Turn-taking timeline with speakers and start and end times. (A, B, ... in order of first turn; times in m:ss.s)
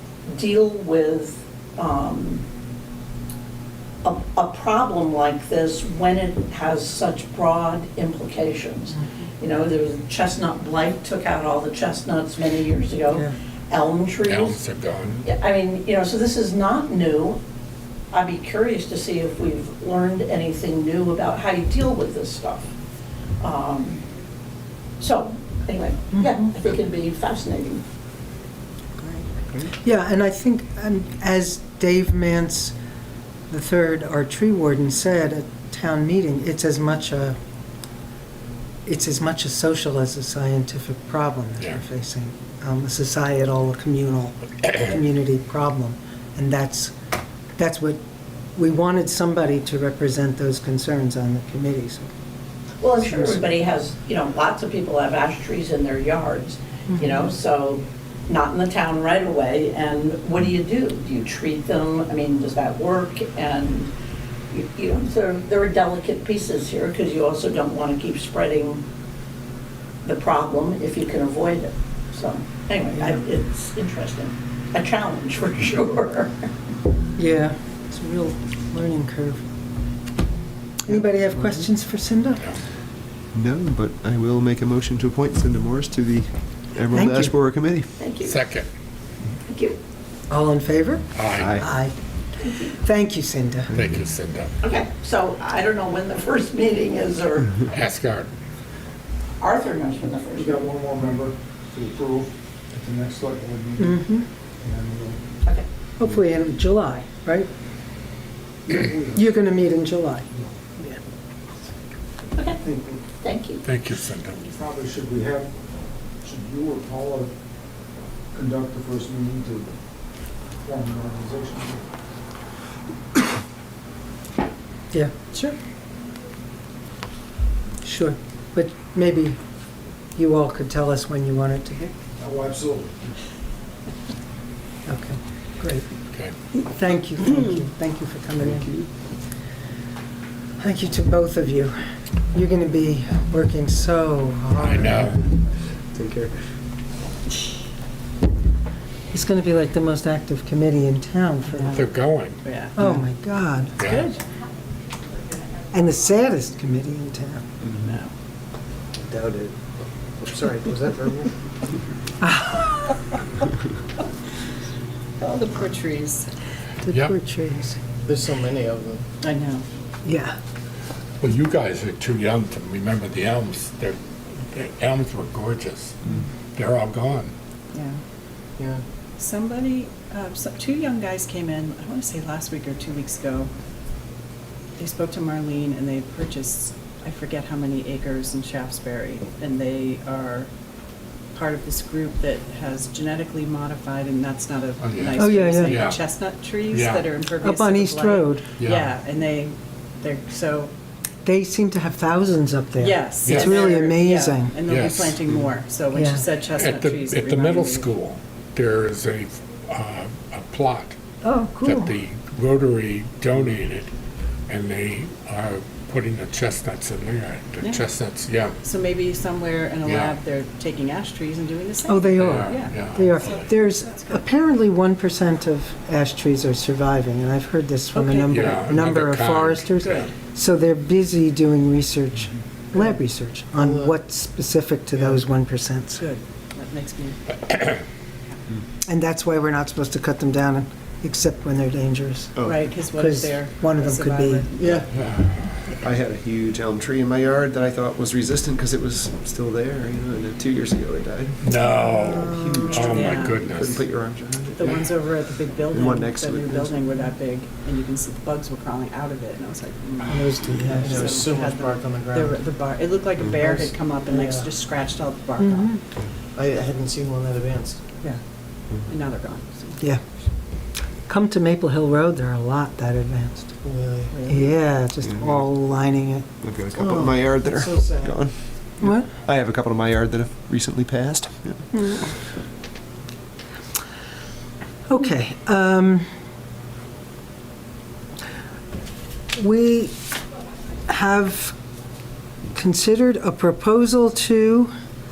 0:00.3-0:02.4 A
0:04.0-0:14.6 A
0:14.2-0:15.2 B
0:15.3-0:17.4 A
0:18.1-0:22.7 A
0:23.4-0:24.0 A
0:25.0-0:27.8 A
0:29.6-0:32.7 C
0:33.5-0:37.4 C
0:38.8-0:47.0 C
0:47.6-0:48.0 C
0:48.6-0:52.1 C
0:52.8-1:03.9 A
0:53.0-0:53.4 C
0:56.9-0:57.2 C
1:04.5-1:08.8 A
1:10.0-1:16.3 A
1:17.2-1:19.5 C
1:20.9-1:22.5 C
1:23.3-1:27.9 D
1:26.9-1:27.3 C
1:28.0-1:28.4 A
1:28.2-1:28.7 B
1:29.5-1:29.8 A
1:30.3-1:32.0 C
1:31.2-1:31.6 B
1:31.3-1:31.7 D
1:32.4-1:32.7 A
1:32.7-1:33.8 C
1:33.7-1:34.5 B
1:34.6-1:37.6 A
1:37.7-1:38.3 B
1:39.4-1:40.7 A
1:40.3-1:44.0 E
1:43.8-1:44.3 C
1:44.6-1:45.2 E
1:46.0-1:47.5 C
1:48.7-1:49.3 E
1:49.1-1:51.0 C
1:52.4-1:52.6 A
1:52.6-1:53.0 E
1:53.2-1:53.6 A
1:53.6-1:54.5 B
1:54.4-1:55.5 E
1:56.2-1:57.3 E
1:58.3-1:59.8 E
2:00.6-2:01.8 E
2:07.8-2:09.4 C
2:10.2-2:11.9 C
2:12.2-2:13.2 E
2:14.9-2:15.9 C
2:16.5-2:18.7 C
2:18.4-2:18.9 D
2:20.6-2:21.8 C
2:22.3-2:25.2 C
2:24.6-2:25.2 B
2:25.9-2:26.3 D
2:29.1-2:31.8 C
2:31.5-2:31.8 F
2:31.7-2:32.4 B
2:32.4-2:32.8 F
2:32.8-2:33.8 C
2:33.8-2:34.0 B
2:33.8-2:34.2 F
2:35.7-2:37.4 C
2:37.8-2:38.1 F
2:39.1-2:39.5 G
2:40.2-2:41.3 G
2:42.2-2:42.7 C
2:45.2-2:46.3 F
2:46.8-2:47.8 C
2:48.1-2:49.0 G
2:49.2-2:49.6 F
2:50.0-2:50.4 C
2:51.2-2:56.0 B
2:56.5-2:57.3 B
2:57.7-2:58.0 F
2:59.2-3:03.5 F
3:04.8-3:10.5 F
3:11.3-3:20.7 F
3:14.8-3:16.0 B
3:15.2-3:15.8 C
3:16.7-3:17.1 B
3:17.4-3:18.5 C
3:18.6-3:18.9 B
3:21.2-3:24.6 C
3:22.8-3:27.9 F
3:23.2-3:23.7 B
3:24.7-3:25.4 B
3:25.9-3:26.2 C
3:26.6-3:30.9 B
3:31.2-3:31.9 C
3:31.6-3:33.9 B
3:34.5-3:38.6 B
3:38.6-3:44.2 F
3:39.9-3:40.2 B
3:41.9-3:56.0 C
3:42.2-3:43.5 B
3:47.9-3:48.6 F
3:48.3-3:50.1 B
3:49.8-3:50.1 F
3:53.6-3:53.9 G
3:56.0-3:57.4 F
3:57.4-3:57.8 B
3:58.8-4:04.5 C
4:02.4-4:02.8 D
4:02.5-4:04.9 F
4:04.9-4:05.3 B
4:05.8-4:11.4 D
4:11.4-4:13.8 B
4:11.9-4:12.9 C
4:12.2-4:14.9 D
4:12.6-4:13.4 F
4:14.5-4:25.8 F
4:15.7-4:17.0 D
4:20.1-4:21.1 C
4:20.7-4:22.3 G
4:23.5-4:24.5 G
4:25.4-4:25.8 C
4:26.4-4:28.2 G
4:28.8-4:29.9 F
4:31.0-4:33.5 C
4:33.6-4:34.5 G
4:34.2-4:36.3 C
4:35.0-4:35.4 D
4:36.4-4:41.6 D
4:36.8-4:39.1 C
4:41.7-4:42.1 C
4:44.9-4:46.0 C
4:49.3-4:50.0 C
4:50.9-4:51.5 C
4:52.5-4:54.7 C